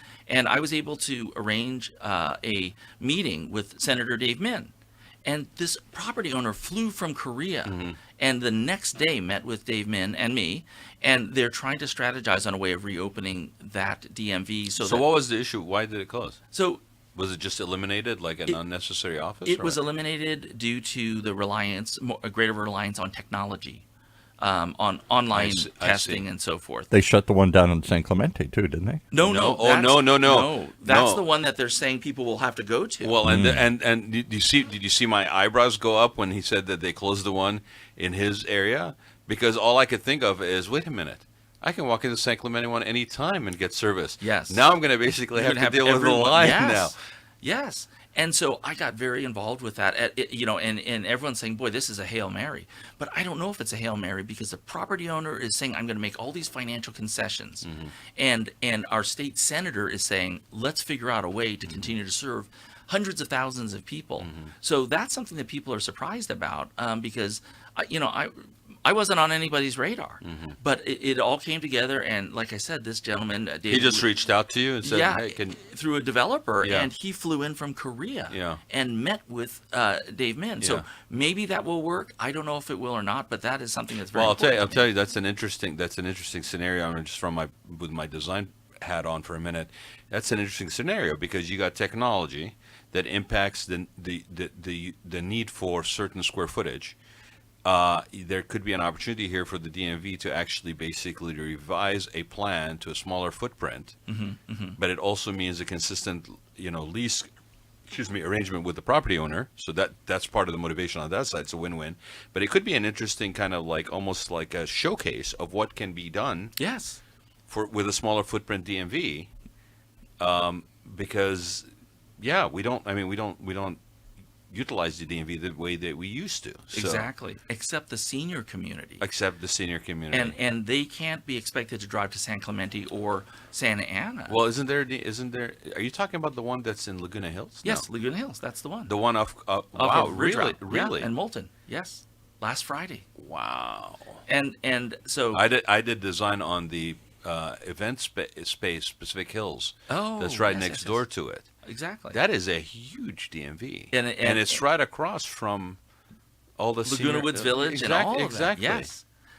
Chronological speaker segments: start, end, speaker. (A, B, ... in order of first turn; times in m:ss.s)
0:00.3-0:04.7 A
0:05.2-0:15.0 A
0:07.7-0:08.0 B
0:14.8-0:16.4 B
0:16.5-0:16.8 A
0:17.1-0:19.8 B
0:19.4-0:23.8 A
0:24.4-0:26.9 A
0:25.3-0:26.2 B
0:26.9-0:29.0 C
0:29.1-0:33.2 A
0:29.2-0:31.2 B
0:33.0-0:46.9 B
0:33.2-0:33.6 C
0:44.2-0:44.7 A
0:45.3-1:14.1 A
0:57.6-0:57.9 B
1:01.7-1:01.9 B
1:04.2-1:04.5 B
1:10.2-1:10.6 B
1:13.7-1:15.6 B
1:14.8-1:24.9 A
1:16.6-1:16.9 B
1:18.3-1:18.6 B
1:20.6-1:20.8 B
1:24.1-1:37.0 B
1:37.6-1:44.0 B
1:44.1-1:44.8 A
1:44.8-1:47.3 B
1:47.9-1:56.5 B
1:56.6-1:57.0 A
1:57.5-1:59.3 B
2:00.2-2:01.6 B
2:02.2-2:03.8 B
2:04.5-2:07.1 B
2:06.7-2:09.0 A
2:09.0-2:10.4 B
2:10.1-2:14.4 A
2:14.3-2:17.8 B
2:17.6-2:18.9 A
2:18.9-2:21.1 B
2:19.7-2:23.0 A
2:23.2-2:24.2 B
2:24.3-2:25.4 A
2:25.3-2:31.5 B
2:29.9-2:31.0 A
2:31.6-2:32.2 A
2:32.1-2:35.8 B
2:33.9-2:34.6 A
2:36.6-2:38.9 B
2:36.8-2:39.0 A